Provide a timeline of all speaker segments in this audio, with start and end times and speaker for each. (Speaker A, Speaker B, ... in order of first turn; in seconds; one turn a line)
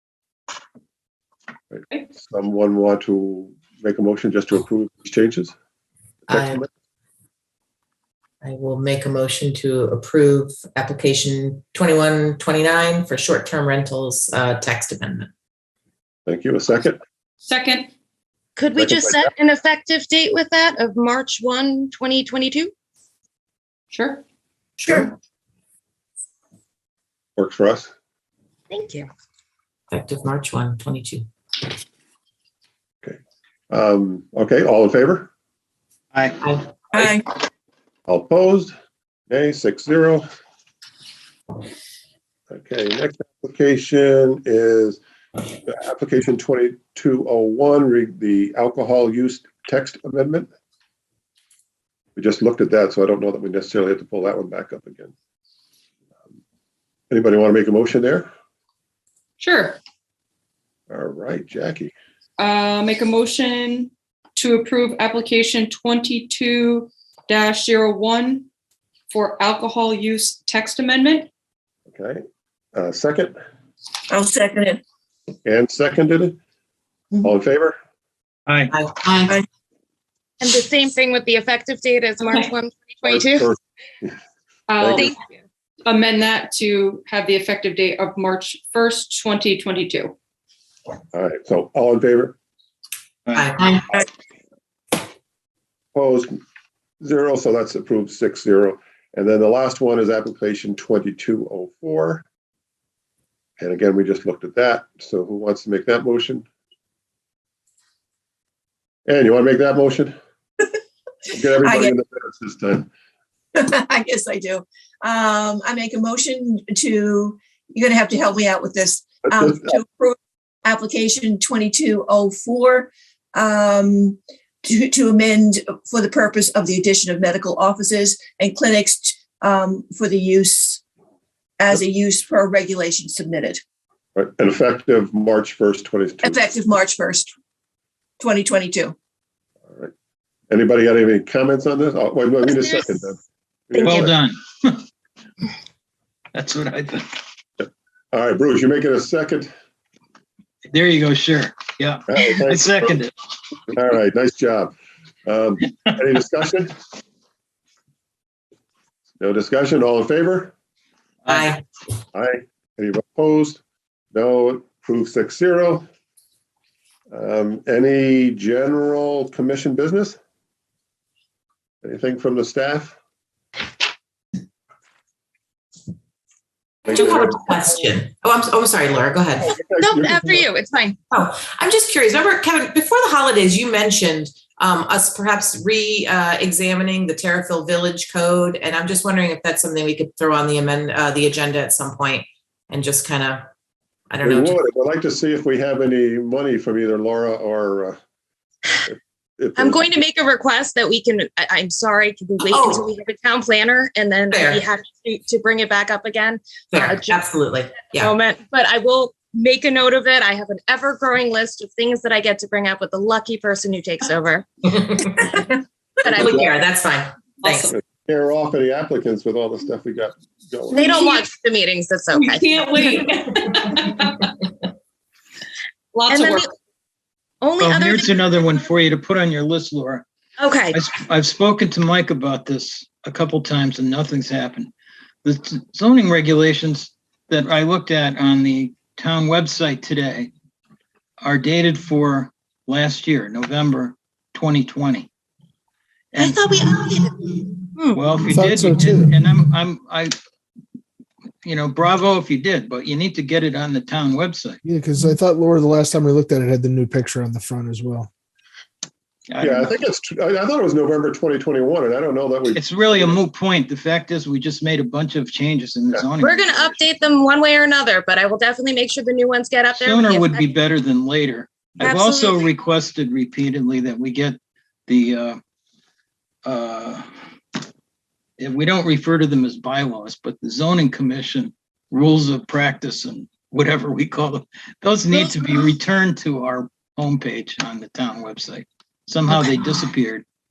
Speaker A: 1.7-5.5
Speaker B: 6.3-6.6
Speaker A: 6.3-6.7
Speaker B: 8.4-15.3
Speaker A: 16.3-17.0
Speaker C: 17.4-17.9
Speaker D: 18.6-22.7
Speaker A: 18.8-19.3
Speaker C: 23.9-24.2
Speaker C: 24.8-25.1
Speaker A: 27.4-27.9
Speaker D: 28.7-29.1
Speaker B: 29.9-31.3
Speaker A: 33.7-35.3
Speaker B: 36.4-36.7
Speaker E: 36.9-37.2
Speaker A: 38.1-38.7
Speaker A: 39.3-40.3
Speaker A: 42.5-50.5
Speaker A: 52.2-55.1
Speaker A: 57.1-58.3
Speaker C: 59.4-59.8
Speaker A: 60.9-61.9
Speaker C: 62.4-68.5
Speaker C: 69.1-71.3
Speaker A: 71.9-72.2
Speaker A: 72.7-73.3
Speaker E: 74.1-74.8
Speaker A: 75.5-76.4
Speaker A: 77.2-77.8
Speaker F: 78.5-78.7
Speaker B: 78.7-79.3
Speaker D: 80.4-83.5
Speaker A: 83.0-83.5
Speaker C: 84.7-85.1
Speaker A: 84.8-85.1
Speaker C: 85.8-90.2
Speaker A: 91.1-92.4
Speaker F: 93.3-93.7
Speaker B: 93.4-94.0
Speaker A: 95.9-96.4
Speaker A: 97.0-102.2
Speaker A: 103.6-106.5
Speaker A: 109.1-110.2
Speaker A: 111.3-112.9
Speaker E: 111.6-112.0
Speaker E: 113.5-130.8
Speaker A: 119.3-119.7
Speaker E: 131.6-133.6
Speaker A: 134.2-136.4
Speaker E: 136.2-137.3
Speaker E: 138.2-138.9
Speaker A: 140.5-144.2
Speaker E: 143.7-144.1
Speaker F: 143.8-144.8
Speaker F: 146.3-147.2
Speaker A: 147.6-149.5
Speaker F: 150.7-153.1
Speaker A: 152.1-152.9
Speaker A: 153.7-154.7
Speaker A: 155.2-156.7
Speaker A: 159.2-160.5
Speaker B: 161.3-161.6
Speaker A: 162.1-163.6
Speaker A: 164.1-165.9
Speaker A: 167.1-170.2
Speaker A: 171.8-172.9
Speaker A: 176.9-177.6
Speaker B: 176.9-179.5
Speaker A: 179.4-180.5
Speaker D: 179.8-181.0
Speaker B: 181.1-193.5
Speaker B: 194.1-194.6
Speaker A: 194.2-198.0
Speaker A: 198.9-199.9
Speaker D: 199.6-207.3
Speaker B: 202.5-202.9
Speaker B: 204.3-204.6
Speaker B: 206.7-208.1
Speaker D: 207.8-215.3
Speaker B: 214.7-215.5
Speaker D: 216.0-216.5
Speaker B: 216.1-217.7
Speaker A: 216.1-216.5
Speaker A: 217.6-220.9
Speaker D: 220.7-222.4
Speaker C: 220.8-221.2
Speaker C: 222.1-224.3
Speaker C: 225.9-226.5
Speaker D: 226.1-226.5
Speaker D: 227.4-228.4
Speaker F: 227.6-230.1
Speaker D: 230.4-230.8
Speaker F: 230.7-234.7
Speaker F: 235.2-240.3
Speaker F: 241.2-245.1
Speaker F: 246.1-246.4
Speaker D: 246.2-248.0
Speaker F: 247.9-250.1
Speaker G: 248.3-249.2
Speaker F: 251.4-254.6
Speaker G: 254.7-258.1
Speaker F: 259.3-259.7
Speaker A: 259.4-263.2
Speaker F: 262.5-266.8
Speaker D: 266.2-270.5
Speaker F: 269.8-275.4
Speaker D: 271.8-272.5
Speaker F: 276.4-277.1
Speaker F: 278.4-290.2